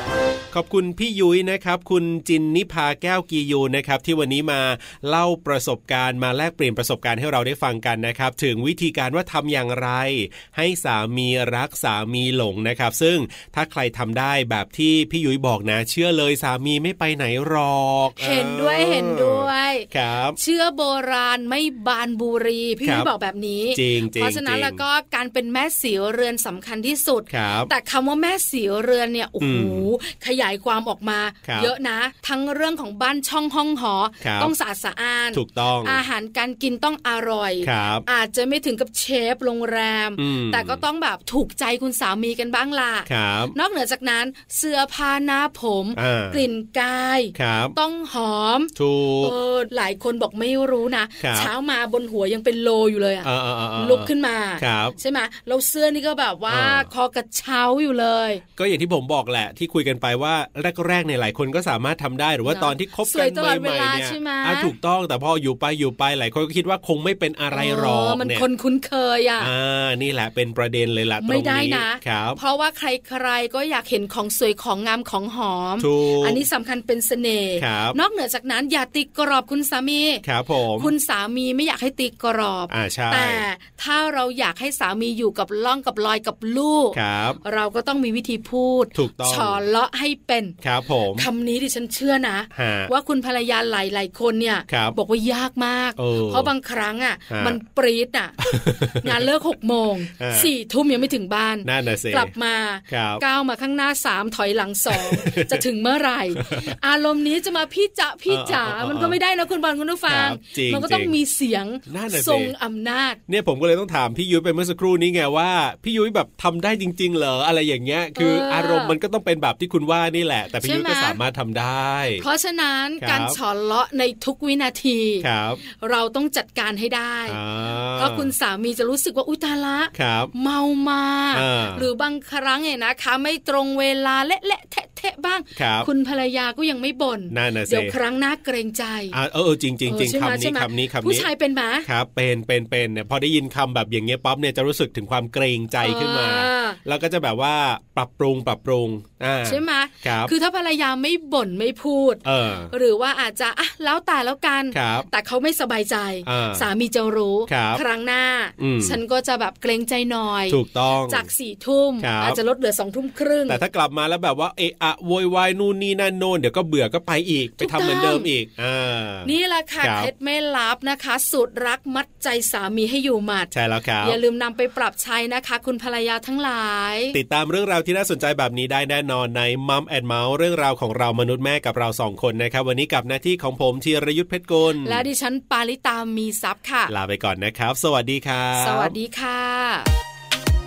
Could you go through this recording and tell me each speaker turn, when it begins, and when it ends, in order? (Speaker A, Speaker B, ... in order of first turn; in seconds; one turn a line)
Speaker A: 0.5-20.4
Speaker B: 18.2-58.4
Speaker A: 22.8-23.1
Speaker A: 23.7-24.8
Speaker A: 27.3-27.7
Speaker A: 29.4-29.9
Speaker A: 31.4-31.7
Speaker A: 34.2-34.5
Speaker A: 35.3-36.0
Speaker A: 37.6-38.1
Speaker A: 40.2-40.9
Speaker A: 43.1-43.6
Speaker A: 46.0-46.5
Speaker A: 47.4-47.8
Speaker A: 48.8-49.4
Speaker A: 51.2-51.5
Speaker A: 53.2-55.0
Speaker A: 56.5-56.9
Speaker A: 58.6-68.5
Speaker B: 62.5-64.7
Speaker B: 67.5-69.5
Speaker A: 69.4-72.4
Speaker B: 71.2-80.2
Speaker A: 75.8-76.5
Speaker A: 77.6-78.0
Speaker A: 80.2-80.9
Speaker B: 80.8-90.6
Speaker A: 82.7-83.5
Speaker A: 86.9-87.4
Speaker A: 89.0-89.6
Speaker A: 90.6-91.3
Speaker B: 91.2-113.2
Speaker A: 92.5-92.9
Speaker A: 94.7-95.0
Speaker A: 96.0-96.5
Speaker A: 97.3-97.6
Speaker A: 98.4-99.3
Speaker A: 100.2-100.5
Speaker A: 101.7-102.3
Speaker A: 102.9-103.2
Speaker A: 104.9-105.6
Speaker A: 106.3-106.8
Speaker A: 108.3-109.2
Speaker A: 110.1-111.2
Speaker A: 111.9-112.5
Speaker A: 113.3-122.2
Speaker B: 118.2-119.0
Speaker B: 120.6-121.2
Speaker B: 122.2-127.4
Speaker A: 123.0-123.4
Speaker A: 125.2-125.6
Speaker A: 127.3-128.3
Speaker B: 128.0-139.2
Speaker A: 129.9-130.3
Speaker A: 131.3-131.9
Speaker A: 135.6-135.9
Speaker A: 137.3-138.0
Speaker A: 139.1-141.3
Speaker B: 139.9-141.9
Speaker A: 141.8-150.3
Speaker B: 145.8-146.8
Speaker B: 149.4-163.6
Speaker A: 152.2-152.7
Speaker A: 154.7-155.1
Speaker A: 156.2-156.7
Speaker A: 157.5-157.8
Speaker A: 158.6-159.0
Speaker A: 160.5-161.3
Speaker A: 162.0-162.4
Speaker A: 163.5-170.1
Speaker B: 167.6-168.3
Speaker B: 169.2-173.5
Speaker A: 173.5-174.2
Speaker B: 174.0-177.2
Speaker A: 177.1-185.1
Speaker B: 184.8-186.9
Speaker A: 186.9-188.9
Speaker B: 188.6-189.9